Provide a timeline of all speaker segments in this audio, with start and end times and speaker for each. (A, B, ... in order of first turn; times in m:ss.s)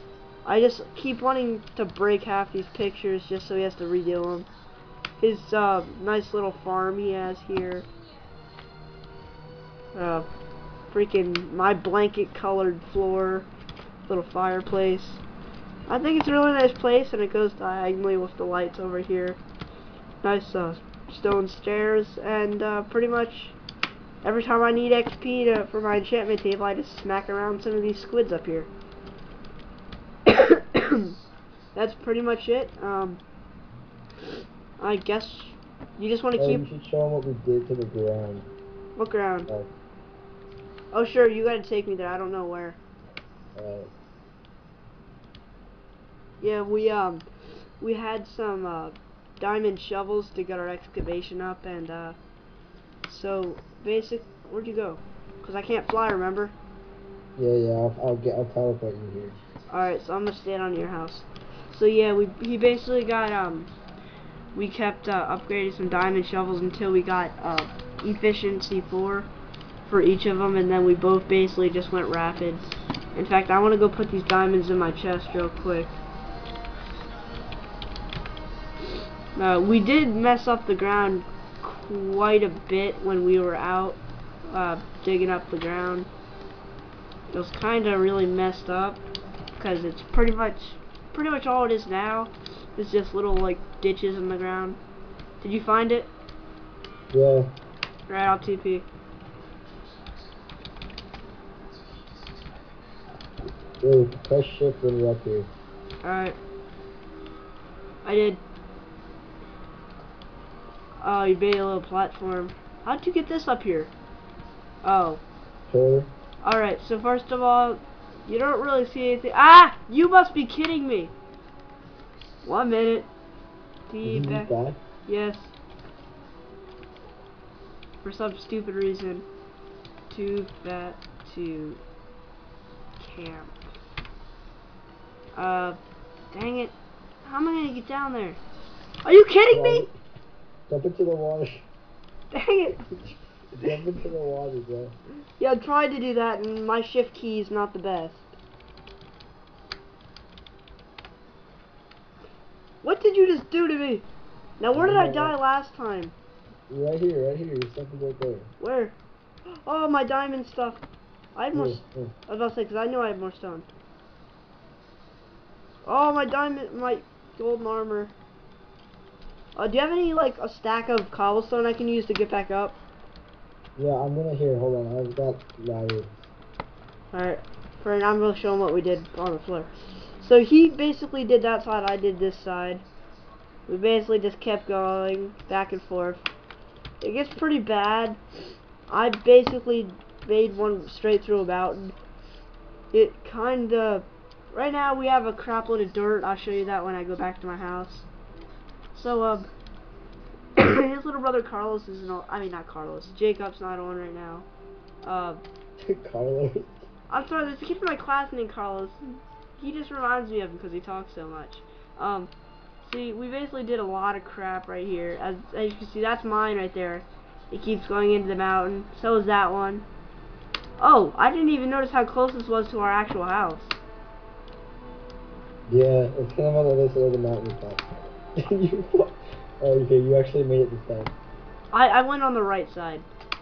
0:00.4-0:04.5 A
0:05.2-0:07.8 A
0:09.9-0:10.2 A
0:10.9-0:13.5 A
0:14.1-0:15.2 A
0:15.9-0:19.4 A
0:20.2-0:23.6 A
0:24.2-0:28.7 A
0:30.3-0:31.1 A
0:31.7-0:33.2 A
0:34.8-0:36.6 A
0:36.4-0:38.5 B
0:39.0-0:39.5 A
0:40.9-0:42.8 A
0:43.5-0:43.9 B
0:46.4-0:47.2 A
0:47.8-0:52.2 A
0:53.1-0:56.6 A
0:57.4-0:59.4 B
0:59.7-1:03.7 A
1:04.5-1:09.3 A
1:09.8-1:16.0 A
1:19.4-1:26.1 A
1:27.3-1:29.0 A
1:29.6-1:34.8 A
1:35.4-1:36.1 A
1:37.1-1:37.5 B
1:38.1-1:38.9 A
1:43.8-1:45.5 B
1:46.0-1:46.4 A
1:48.0-1:48.4 A
1:51.0-1:53.9 A
1:54.8-1:55.2 A
1:55.7-1:56.1 B
1:56.4-2:01.1 A
2:02.4-2:03.1 A
2:03.9-2:04.5 A
2:04.0-2:04.8 B
2:05.1-2:05.5 A
2:08.0-2:09.2 A
2:10.1-2:11.8 A
2:13.0-2:13.6 A
2:15.4-2:15.8 A
2:16.3-2:18.4 A
2:19.0-2:19.9 A
2:19.5-2:19.9 B
2:20.7-2:21.7 B
2:22.3-2:23.0 A
2:23.5-2:24.9 B
2:25.4-2:28.3 A
2:32.8-2:34.0 A
2:34.6-2:36.1 A
2:34.7-2:35.3 B
2:36.7-2:38.5 B
2:38.6-2:39.0 A
2:39.5-2:40.8 A
2:41.4-2:43.7 A
2:41.5-2:42.1 B
2:45.8-2:48.1 A
2:49.6-2:52.8 A
2:53.8-2:56.1 B
2:57.1-2:59.7 A
3:00.2-3:02.8 A
3:03.7-3:06.2 A
3:07.0-3:08.2 A
3:08.9-3:11.9 A
3:12.9-3:18.1 A
3:18.9-3:19.5 A
3:20.6-3:24.4 A
3:25.0-3:25.4 A
3:25.8-3:26.8 B
3:27.1-3:32.3 A
3:32.8-3:39.8 A
3:40.8-3:43.8 A
3:45.7-3:51.1 B
3:51.7-3:53.0 A